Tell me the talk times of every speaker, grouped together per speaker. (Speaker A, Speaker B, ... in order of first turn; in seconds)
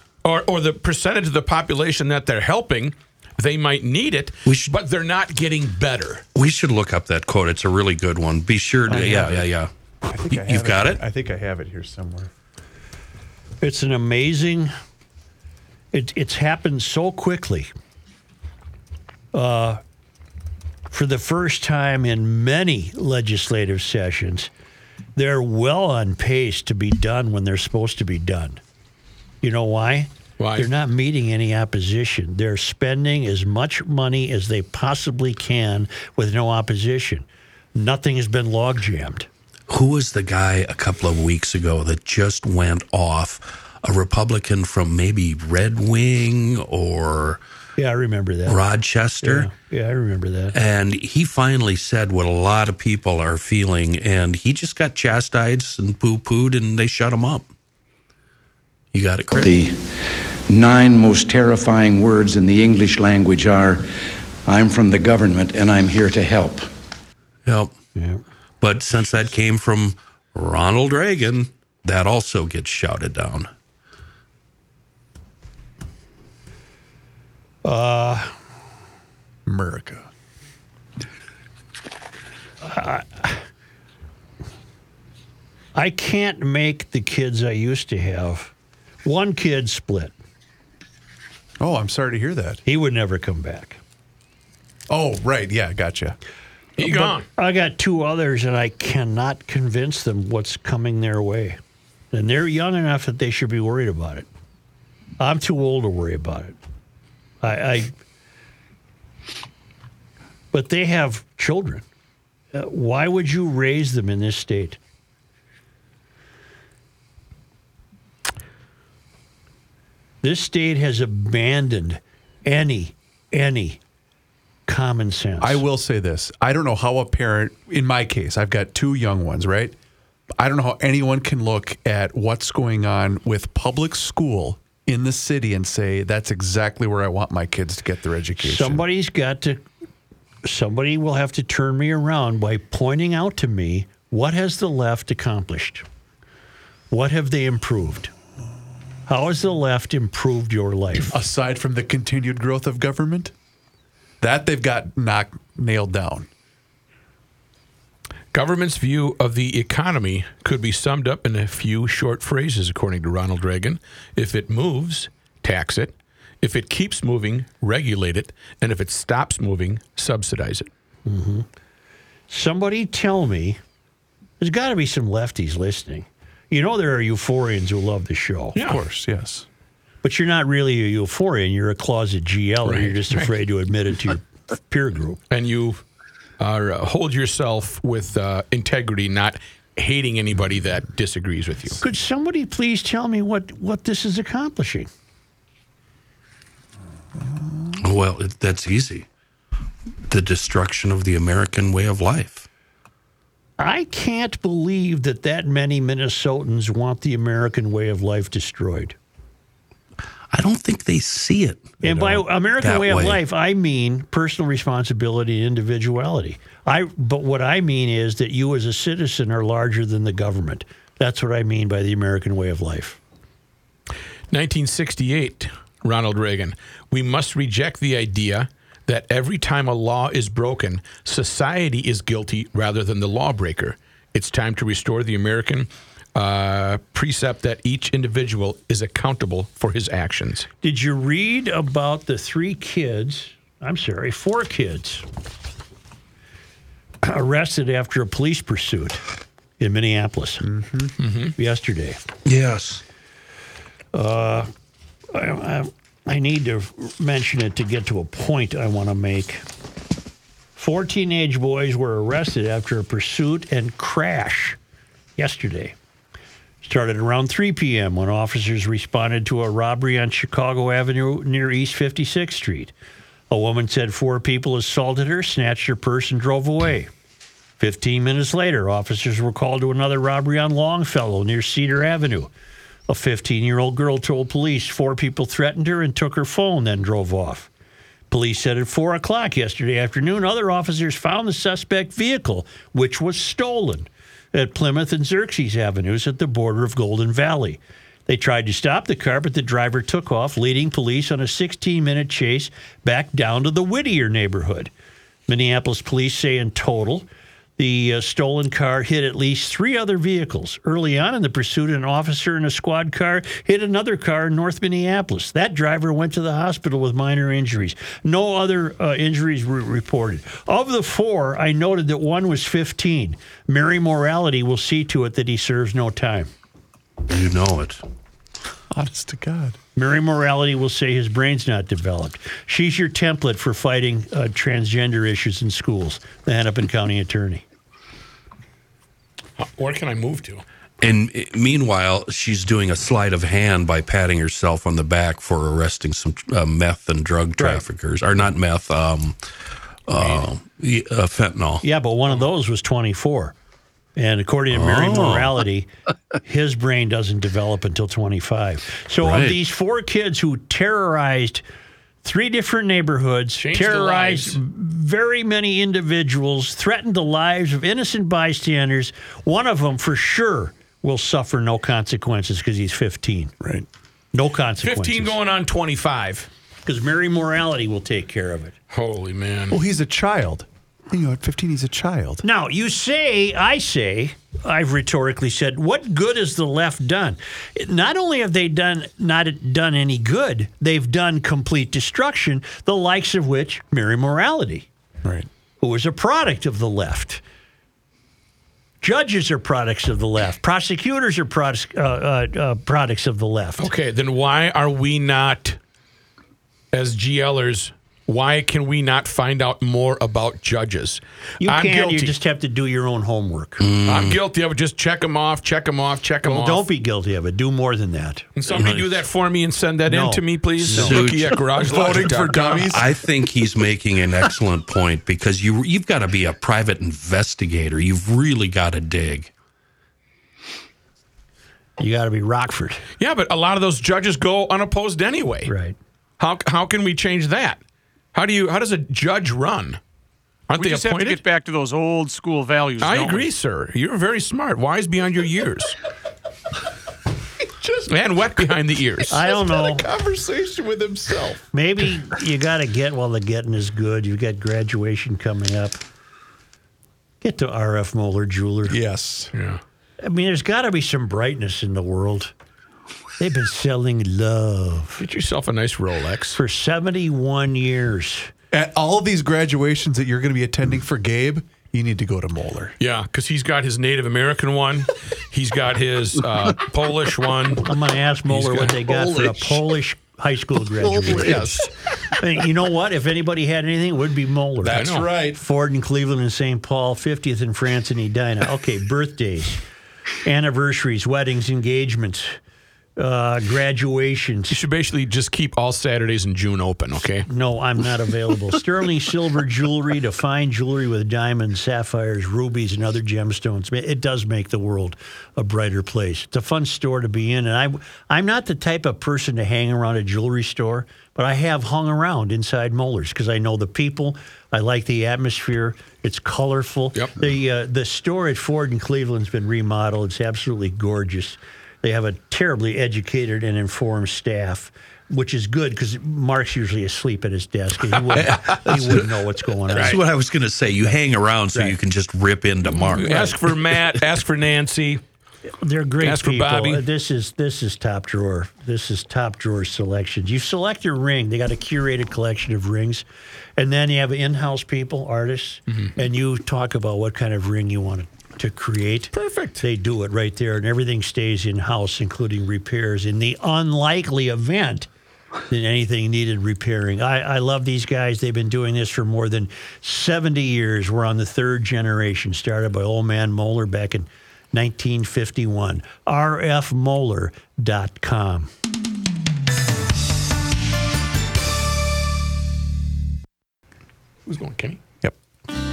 Speaker A: 0.2-6.2, 30.4-30.7, 96.8-97.3, 158.3-170.7, 178.6-178.8, 182.6-183.3, 185.3-185.8, 186.4-191.8, 224.3-240.5, 251.0-251.3, 339.4-340.4, 363.4-364.4, 374.6-376.3, 378.7-379.6, 403.6-405.6, 406.7-412.1, 413.9-416.6, 418.4-422.8, 433.0-435.5, 436.2-437.6, 438.1-439.8, 440.5-441.2, 442.8-445.8, 447.9-449.1, 459.3-459.6, 465.0-466.4, 472.8-477.7, 478.3-479.0, 481.1-481.7, 484.7-485.1, 494.5-497.3, 532.8-535.0, 536.0-536.8, 549.1-549.6, 574.3-574.8
Speaker B: 4.5-4.7, 6.3-9.7, 10.3-11.0, 39.7-47.4, 48.5-49.5, 50.5-57.5, 58.9-59.5, 67.5-67.7, 68.6-73.5, 197.8-199.1, 200.1-202.4, 210.3-213.2, 252.2-252.8, 327.0-327.8, 340.8-349.2, 349.9-351.6, 354.5-355.4, 359.0-359.4, 413.6-414.2, 418.5-418.9, 420.7-422.0, 422.6-429.3, 528.1-529.0, 529.7-534.0
Speaker C: 8.9-9.4, 10.0-12.3, 79.5-80.0, 91.6-92.6, 94.9-96.2, 125.4-129.8, 130.4-138.8, 151.1-153.3, 154.2-156.3, 178.6-179.4, 250.4-250.9, 328.7-329.6, 373.4-373.7, 379.5-382.2, 421.6-422.9, 447.6-447.9, 449.1-451.4, 458.7-459.3, 468.5-472.7, 478.9-479.5, 480.8-481.6, 484.6-485.4
Speaker D: 13.6-14.7, 15.9-17.7, 19.3-19.8, 20.9-24.5, 25.1-28.6, 29.4-39.3, 47.8-48.6, 49.2-50.5, 68.0-68.2, 77.6-78.3, 82.6-83.4, 85.8-90.1, 92.7-93.8, 96.8-101.6, 102.1-104.3, 105.2-106.5, 107.4-107.9, 110.5-111.8, 112.5-114.8, 120.2-123.8, 124.7-125.6, 138.4-139.6, 140.4-145.8, 146.9-148.1, 149.1-151.1, 171.1-171.5, 172.3-173.6, 174.4-178.6, 180.0-185.2, 191.8-194.9, 203.6-208.9, 211.8-223.0, 240.6-245.0, 247.0-249.0, 249.6-250.5, 251.4-252.0, 253.9-254.5, 255.1-259.4, 260.6-264.6, 265.2-265.8, 266.6-272.7, 273.3-276.9, 277.6-282.3, 282.9-287.5, 288.1-304.7, 305.3-307.1, 307.6-326.3, 329.8-337.4, 347.4-347.6, 351.6-353.4, 353.9-355.7, 356.2-361.4, 362.0-373.3, 374.1-375.1, 376.6-378.5, 382.2-394.7, 395.6-397.2, 398.8-403.7, 411.4-413.6, 416.2-418.2, 419.9-421.1, 431.8-432.8, 435.5-435.8, 449.1-449.9, 451.5-455.8, 457.2-458.8, 460.0-462.3, 463.2-465.0, 466.4-468.3, 477.6-481.5, 482.1-489.6, 490.2-492.4, 493.0-494.6, 497.3-530.0, 533.0-533.3, 535.6-543.0, 543.6-554.9, 555.5-568.5
Speaker E: 59.4-63.9, 64.5-66.7
Speaker F: 440.6-443.3